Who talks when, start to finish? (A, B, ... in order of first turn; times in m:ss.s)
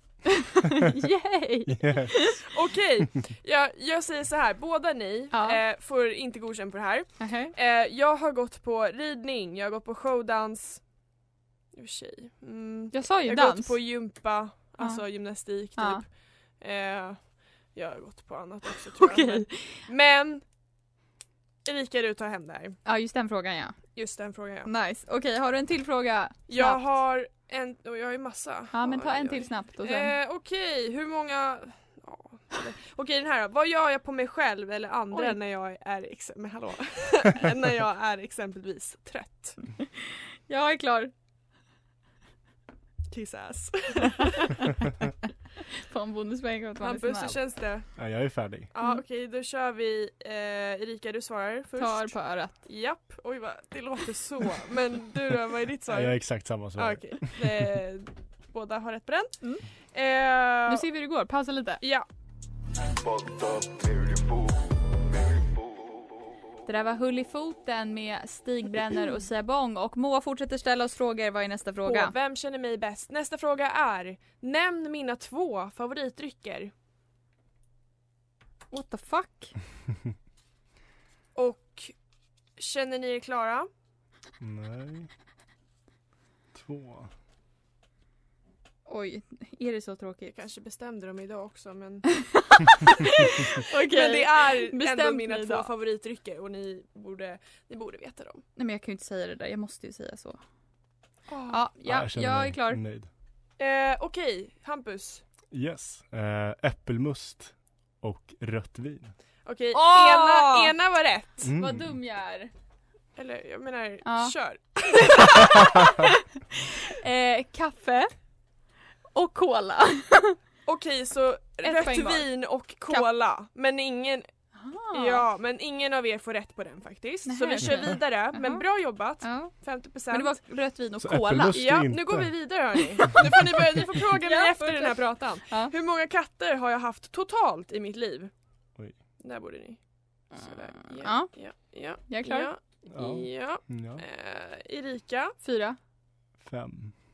0:00.4-0:02.4 A
0:01.7-0:02.3 B
0:02.5-0:10.8 C
0:05.3-0:05.6 A
0:07.2-0:07.5 A
0:11.7-0:16.1 C
0:12.9-0:13.8 A
0:15.8-0:16.0 A
0:16.6-0:17.2 C
0:17.8-0:20.4 C
0:19.0-0:19.8 A
0:21.6-0:22.8 C
0:22.8-0:23.8 A
0:24.0-0:24.7 C
0:24.6-0:26.8 A
0:26.5-0:39.6 C
0:28.7-0:30.1 A
0:35.1-0:35.4 A
0:39.8-0:41.1 A
0:43.1-0:44.6 C
0:44.2-0:45.0 A
0:45.8-0:47.4 A
0:46.8-0:47.9 C
0:48.0-0:48.7 B
0:48.7-0:59.4 C
0:51.8-0:52.6 A
0:55.9-0:57.7 B
0:59.9-1:00.8 C
1:00.7-1:01.8 A
1:01.8-1:02.1 C
1:06.7-1:12.2 A
1:11.8-1:16.7 C
1:18.7-1:19.5 A
1:21.4-1:21.9 C
1:22.6-1:23.7 C
1:24.4-1:25.1 B
1:26.5-1:27.1 B
1:28.9-1:30.3 A
1:30.3-1:32.1 C
1:32.1-1:35.7 A
1:33.7-1:38.4 C
1:38.6-1:40.4 A
1:41.3-1:41.6 C
1:41.5-1:42.8 A
1:41.8-1:43.1 B
1:43.6-1:45.2 C
1:45.5-1:49.1 B
1:49.4-1:51.5 C
1:49.7-1:50.7 A
1:51.4-1:51.9 B
1:51.6-1:52.5 A
1:53.2-1:55.6 C
1:54.0-1:54.3 A
1:55.0-1:58.1 A
1:59.1-2:00.4 A
2:00.7-2:04.3 C
2:01.6-2:02.3 A
2:04.6-2:05.2 A
2:04.9-2:10.4 C
2:07.3-2:08.6 A
2:09.2-2:09.5 A
2:10.1-2:11.7 A
2:11.0-2:12.5 B
2:11.5-2:18.3 C
2:13.0-2:13.3 A
2:13.0-2:13.3 B
2:14.2-2:15.7 A
2:19.2-2:19.8 C
2:20.3-2:21.3 A
2:20.3-2:25.4 C
2:22.1-2:22.5 A
2:22.9-2:24.0 B
2:25.4-2:25.8 A
2:26.4-2:26.9 B